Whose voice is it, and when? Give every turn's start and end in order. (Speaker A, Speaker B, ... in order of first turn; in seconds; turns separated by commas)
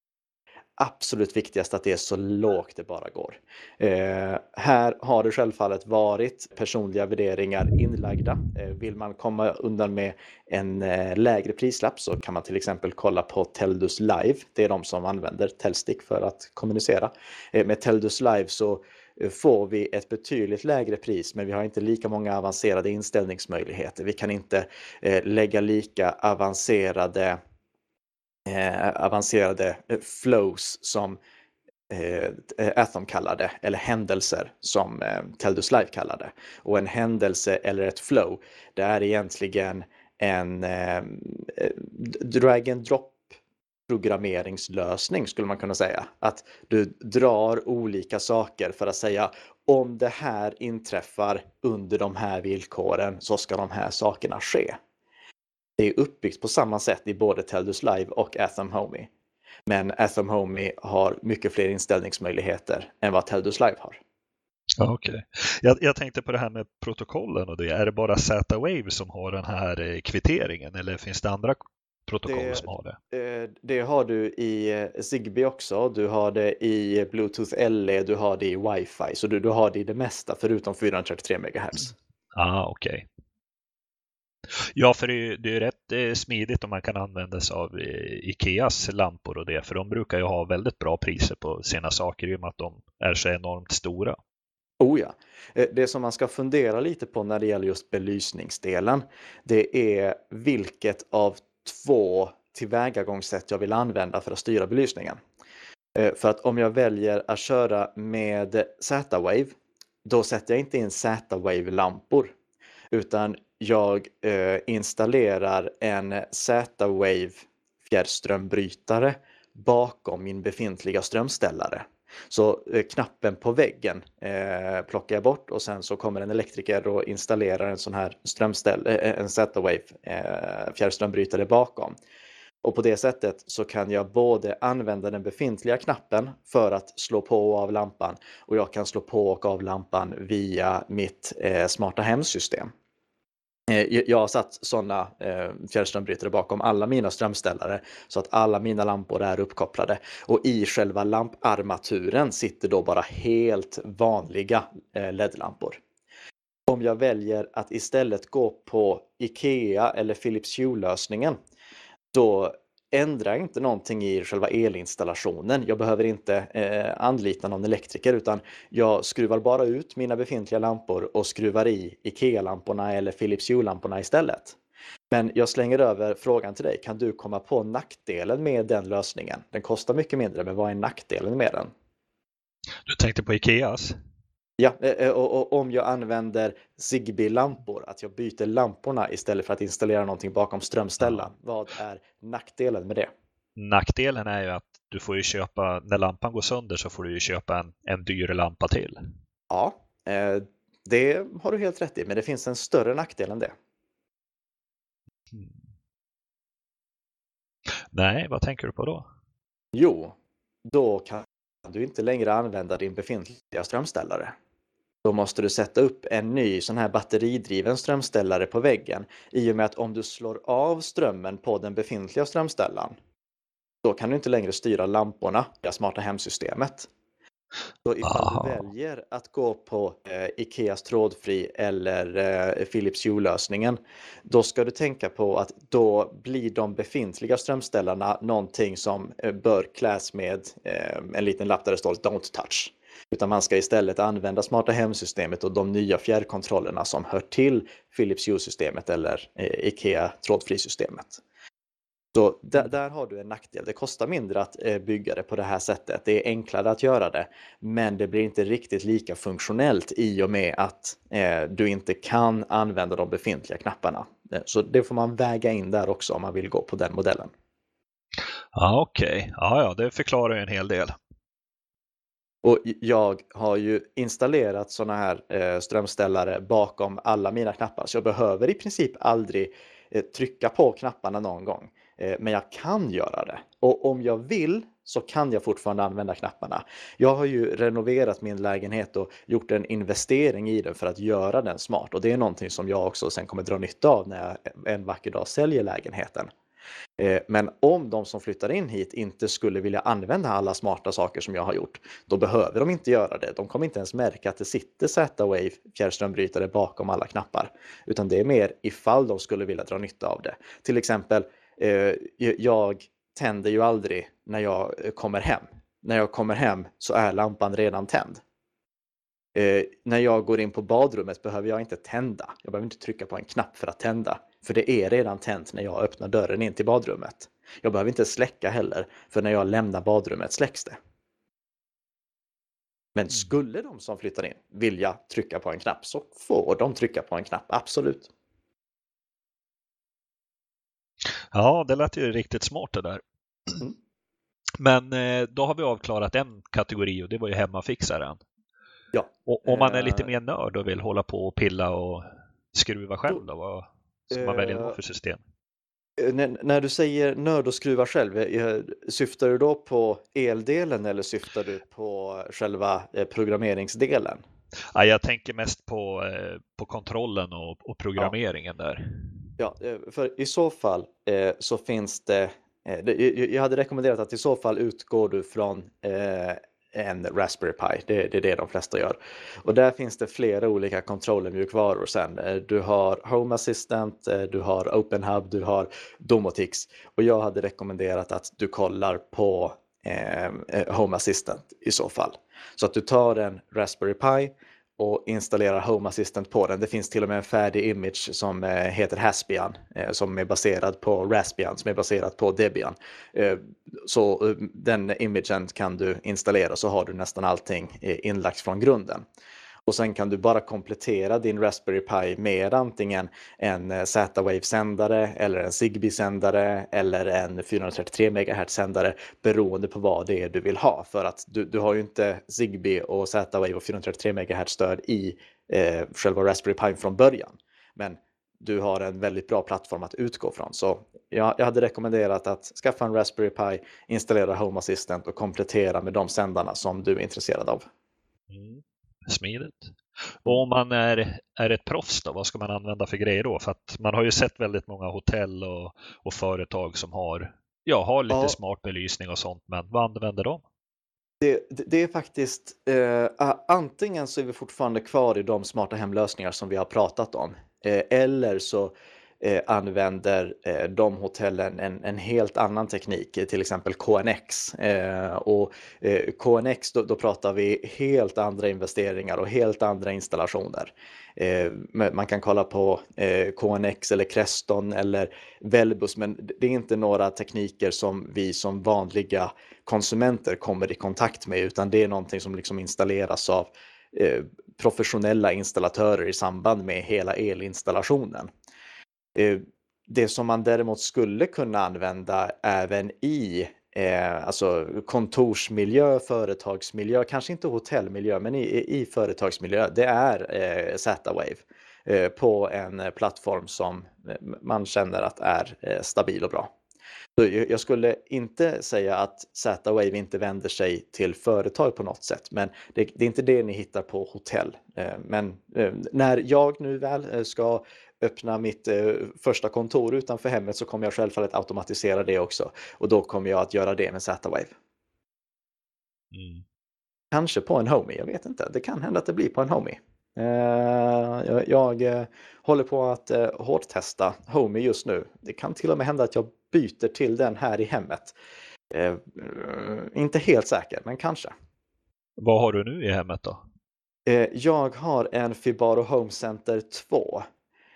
Speaker A: 0.8-27.4, Speaker A: 28.5-31.2, Speaker A: 31.9-43.2, Speaker A: 43.9-54.8, Speaker A: 55.8-59.1, Speaker A: 59.7-64.0, Speaker B: 64.8-73.0, Speaker A: 72.2-81.9, Speaker B: 82.3-83.0, Speaker B: 84.5-94.2, Speaker A: 94.8-105.2, Speaker A: 105.9-109.5, Speaker A: 110.0-112.3, Speaker A: 112.9-131.9, Speaker A: 132.6-142.7, Speaker A: 143.7-155.8, Speaker A: 156.7-161.4, Speaker A: 162.1-174.6, Speaker A: 175.1-181.7, Speaker B: 182.8-183.9, Speaker A: 184.6-193.1, Speaker B: 191.0-191.3, Speaker B: 193.6-199.0, Speaker A: 199.5-203.5, Speaker B: 205.3-205.6, Speaker B: 207.9-209.1, Speaker A: 209.7-210.1, Speaker A: 210.7-214.3, Speaker A: 215.0-222.9, Speaker A: 223.8-226.9, Speaker A: 227.8-251.2, Speaker B: 228.0-228.6, Speaker A: 252.1-267.3, Speaker B: 268.5-270.9, Speaker A: 272.4-296.3, Speaker A: 297.0-318.2, Speaker A: 319.3-330.8, Speaker A: 332.9-338.1, Speaker B: 341.3-343.6, Speaker B: 344.6-348.2, Speaker A: 348.9-350.1, Speaker B: 349.2-355.2, Speaker A: 354.1-354.8, Speaker A: 356.0-364.2, Speaker B: 364.7-369.0, Speaker A: 369.4-409.0, Speaker A: 409.7-437.6, Speaker B: 438.3-450.4, Speaker A: 448.1-448.4, Speaker A: 451.2-488.3, Speaker A: 489.1-506.5, Speaker A: 507.2-524.5, Speaker B: 526.1-526.4, Speaker A: 527.1-538.1, Speaker A: 538.7-541.3, Speaker B: 542.2-543.4, Speaker A: 544.0-547.3